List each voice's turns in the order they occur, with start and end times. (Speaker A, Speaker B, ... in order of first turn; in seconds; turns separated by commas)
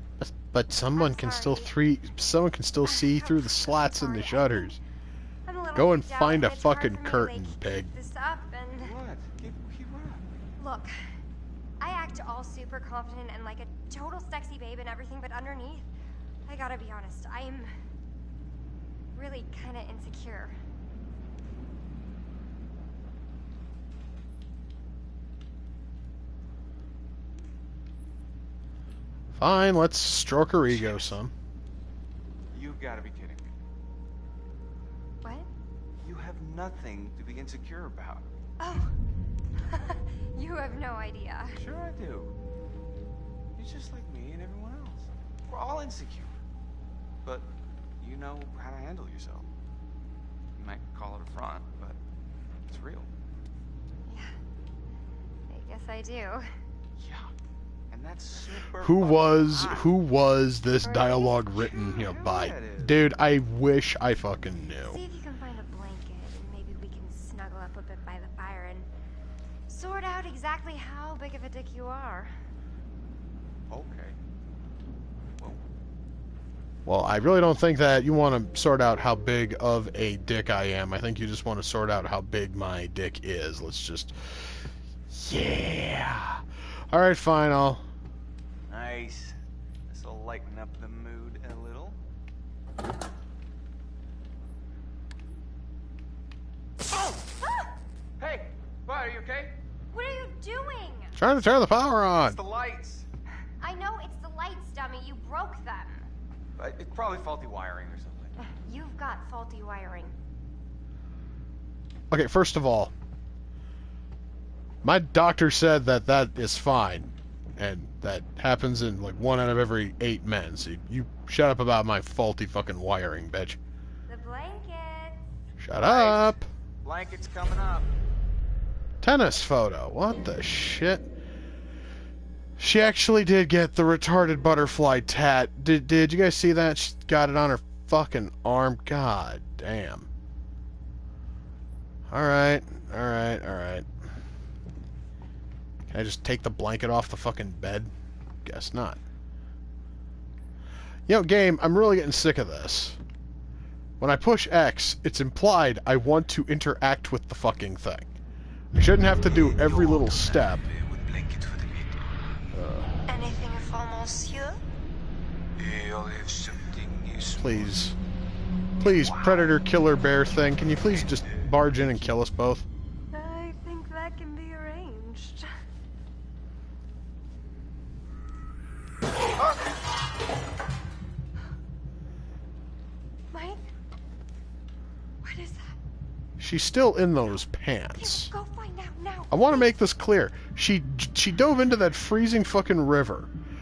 Speaker A: 0.2-4.8, Speaker B: 0.9-1.7, Speaker B: 2.8-4.8, Speaker B: 5.5-8.9, Speaker A: 5.7-7.9, Speaker C: 8.8-10.2, Speaker B: 10.6-10.9, Speaker B: 11.8-15.9, Speaker B: 16.4-17.7, Speaker B: 19.1-20.6, Speaker A: 29.4-31.3, Speaker C: 30.7-31.0, Speaker C: 32.5-33.5, Speaker B: 35.2-35.5, Speaker C: 36.0-38.3, Speaker B: 38.6-39.0, Speaker B: 39.7-41.6, Speaker C: 41.5-42.3, Speaker C: 43.5-46.3, Speaker C: 47.2-49.5, Speaker C: 50.5-52.0, Speaker C: 52.7-53.1, Speaker B: 54.0-54.4, Speaker B: 55.5-56.5, Speaker C: 57.0-57.3, Speaker C: 57.9-59.9, Speaker A: 58.8-65.0, Speaker B: 60.8-62.0, Speaker C: 61.8-63.1, Speaker B: 64.8-68.9, Speaker B: 69.7-72.3, Speaker C: 73.7-74.2, Speaker A: 76.8-84.5, Speaker A: 85.1-87.8, Speaker C: 88.7-89.3, Speaker C: 89.9-92.0, Speaker C: 98.2-99.5, Speaker B: 99.9-101.2, Speaker A: 101.2-102.4, Speaker C: 102.2-103.1, Speaker B: 103.6-106.0, Speaker C: 106.6-108.3, Speaker B: 108.6-110.2, Speaker A: 112.1-112.9, Speaker A: 114.8-123.6, Speaker B: 124.1-125.2, Speaker A: 125.6-126.5, Speaker C: 125.8-127.9, Speaker A: 129.0-131.1, Speaker A: 132.6-140.1, Speaker A: 142.1-143.8, Speaker A: 145.9-147.9, Speaker A: 148.4-149.0, Speaker A: 151.1-153.0, Speaker A: 154.0-158.1, Speaker A: 158.7-160.7, Speaker A: 162.5-163.1, Speaker B: 163.1-164.6, Speaker A: 167.3-167.9, Speaker A: 168.8-172.7, Speaker B: 173.1-175.5, Speaker B: 183.3-183.6, Speaker B: 185.2-185.7, Speaker A: 186.4-188.3, Speaker B: 187.9-189.7, Speaker A: 189.3-193.3